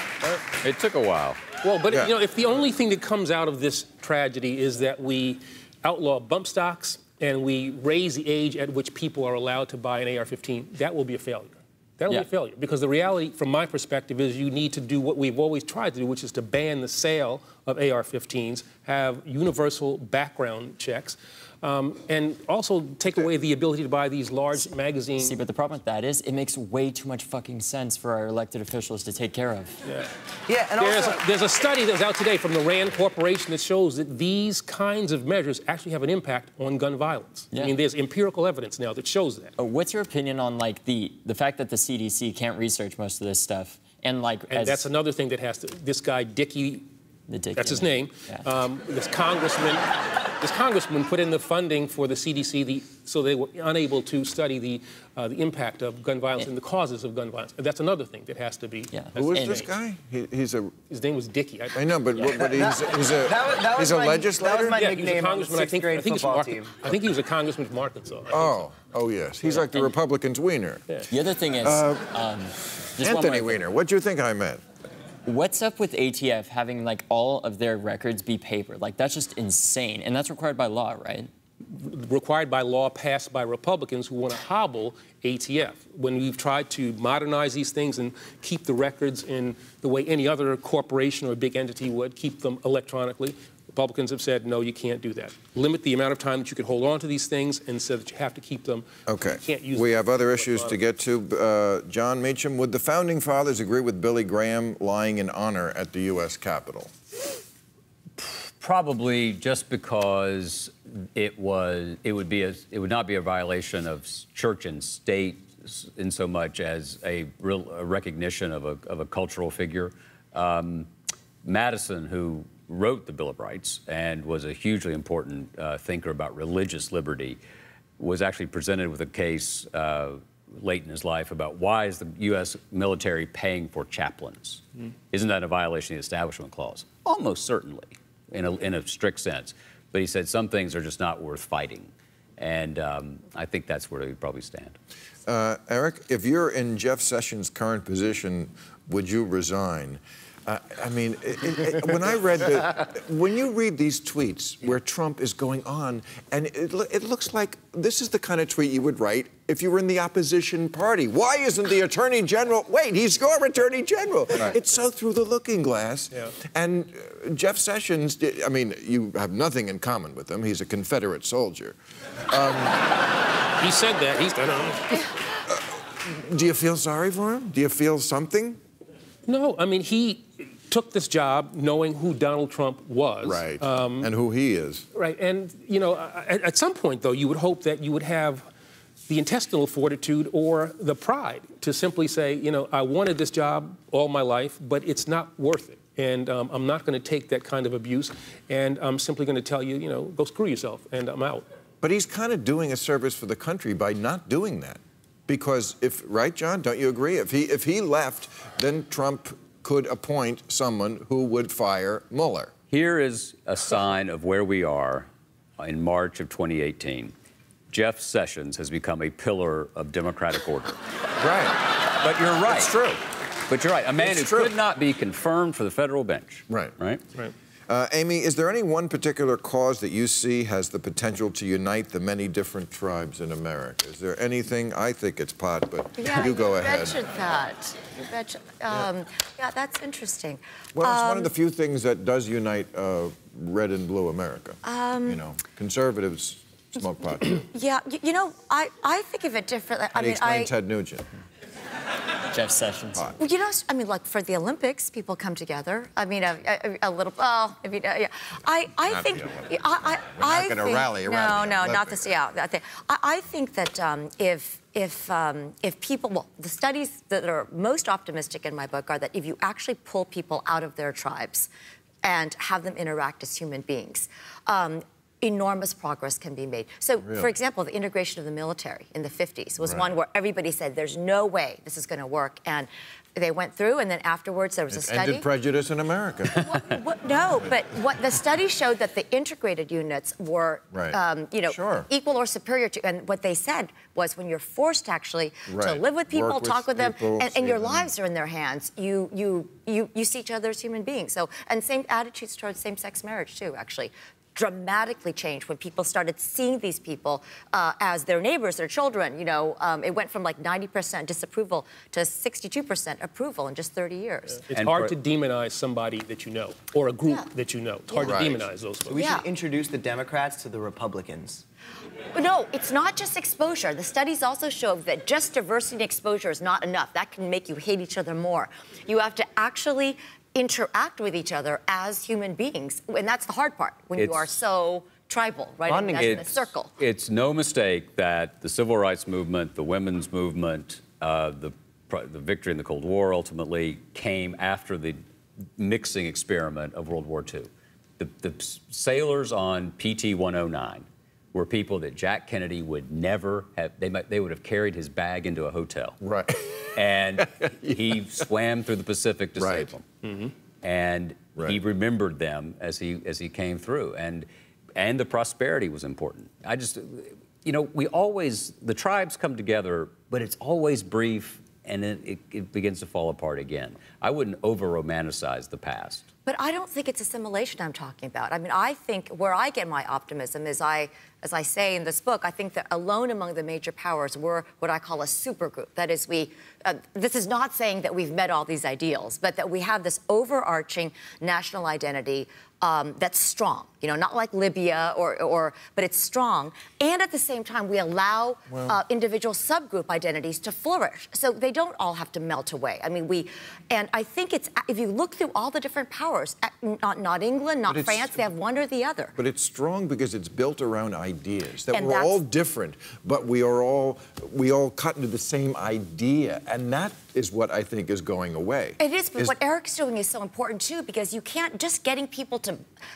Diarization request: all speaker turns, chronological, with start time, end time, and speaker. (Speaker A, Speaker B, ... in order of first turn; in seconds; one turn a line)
Speaker A: 0.6-1.4
Speaker B: 1.6-25.4
Speaker C: 25.2-29.8
Speaker B: 29.8-30.1
Speaker D: 30.5-31.2
Speaker B: 30.8-39.5
Speaker C: 39.6-44.9
Speaker B: 44.5-46.8
Speaker C: 47.3-48.5
Speaker B: 47.5-49.9
Speaker B: 50.4-59.7
Speaker C: 58.9-59.6
Speaker E: 59.2-60.8
Speaker B: 60.9-61.8
Speaker E: 61.7-64.8
Speaker D: 62.3-66.8
Speaker B: 64.6-68.6
Speaker E: 68.3-70.9
Speaker C: 69.5-69.9
Speaker C: 71.1-73.7
Speaker E: 71.6-72.1
Speaker E: 73.0-74.6
Speaker C: 75.2-81.3
Speaker B: 81.7-100.8
Speaker E: 99.1-106.9
Speaker A: 108.2-120.9
Speaker A: 121.4-127.4
Speaker A: 128.0-144.8
Speaker E: 145.3-171.8
Speaker E: 172.3-172.8
Speaker B: 173.6-175.1
Speaker E: 175.5-178.6
Speaker B: 179.3-184.1
Speaker E: 183.2-184.9
Speaker B: 184.9-188.5
Speaker B: 189.1-201.4
Speaker E: 201.8-212.5
Speaker A: 212.7-217.1
Speaker A: 217.7-220.8
Speaker E: 221.2-221.6
Speaker A: 222.0-222.7
Speaker E: 222.4-223.0
Speaker A: 223.5-227.0
Speaker E: 224.0-224.6
Speaker E: 226.5-226.8
Speaker E: 227.7-237.0
Speaker F: 236.0-241.3
Speaker E: 240.8-247.4
Speaker F: 244.6-245.2
Speaker F: 247.3-250.5
Speaker E: 249.9-251.1
Speaker C: 252.3-253.1
Speaker F: 253.2-271.5
Speaker E: 258.9-262.2
Speaker F: 272.0-285.2
Speaker E: 277.0-277.3
Speaker E: 279.6-279.9
Speaker E: 284.7-286.5
Speaker F: 286.3-314.4
Speaker E: 290.7-291.9
Speaker E: 295.5-297.9
Speaker B: 314.5-319.0
Speaker A: 314.5-314.9
Speaker E: 318.0-318.4
Speaker D: 318.9-321.4
Speaker F: 318.9-319.3
Speaker F: 322.1-336.7
Speaker A: 333.9-334.4
Speaker D: 335.7-336.4
Speaker A: 336.0-345.0
Speaker A: 345.6-356.0
Speaker E: 356.0-358.0
Speaker A: 356.8-359.9
Speaker E: 359.4-359.8
Speaker A: 360.6-376.1
Speaker F: 376.3-409.1
Speaker E: 407.7-408.2
Speaker E: 409.2-419.3
Speaker F: 411.7-412.2
Speaker F: 418.8-422.6